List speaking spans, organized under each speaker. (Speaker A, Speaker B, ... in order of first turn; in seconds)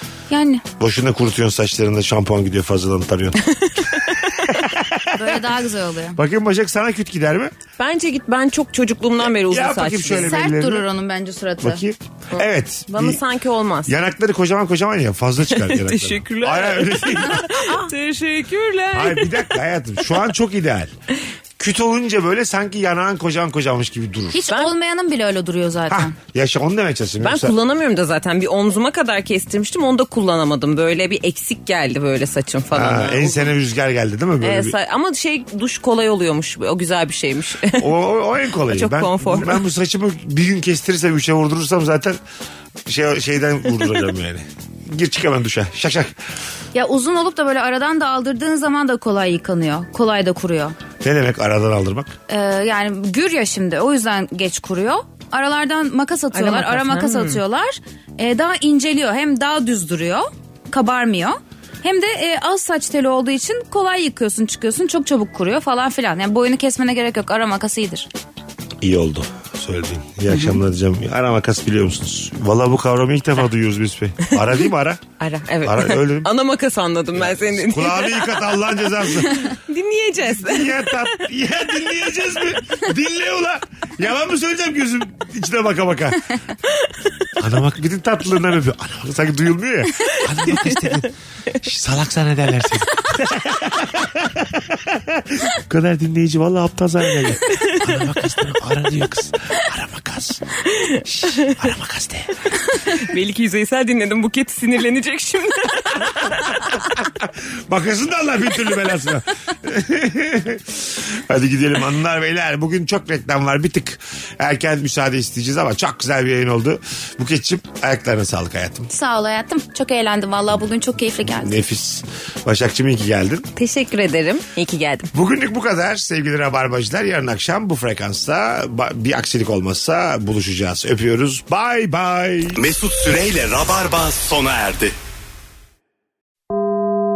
Speaker A: 0.3-0.7, 5.1-6.2, 10.2-11.8, 24.3-26.1, 46.7-50.8, 52.3-68.1, 118.9-121.5
Speaker B: 0.8-3.4, 4.2-5.5, 6.2-7.5, 9.4-10.9, 11.6-13.2, 13.9-17.7, 18.9-20.9, 21.6-24.4, 25.9-27.6, 32.7-34.8, 37.8-42.2, 42.9-46.1, 51.0-52.1, 68.8-75.0, 75.6-76.3, 77.2-79.5, 80.4-86.4, 87.4-102.3, 106.5-118.9, 121.4-123.5, 125.1-132.6
Speaker C: 3.4-4.5, 7.8-10.4, 12.3-13.9, 15.6-19.4, 27.2-33.5, 34.4-38.0, 38.6-39.6, 56.3-57.4, 75.2-81.1, 90.1-90.7, 97.5-97.9, 100.7-101.5, 102.7-106.5, 123.6-125.1
Speaker D: 132.6-134.9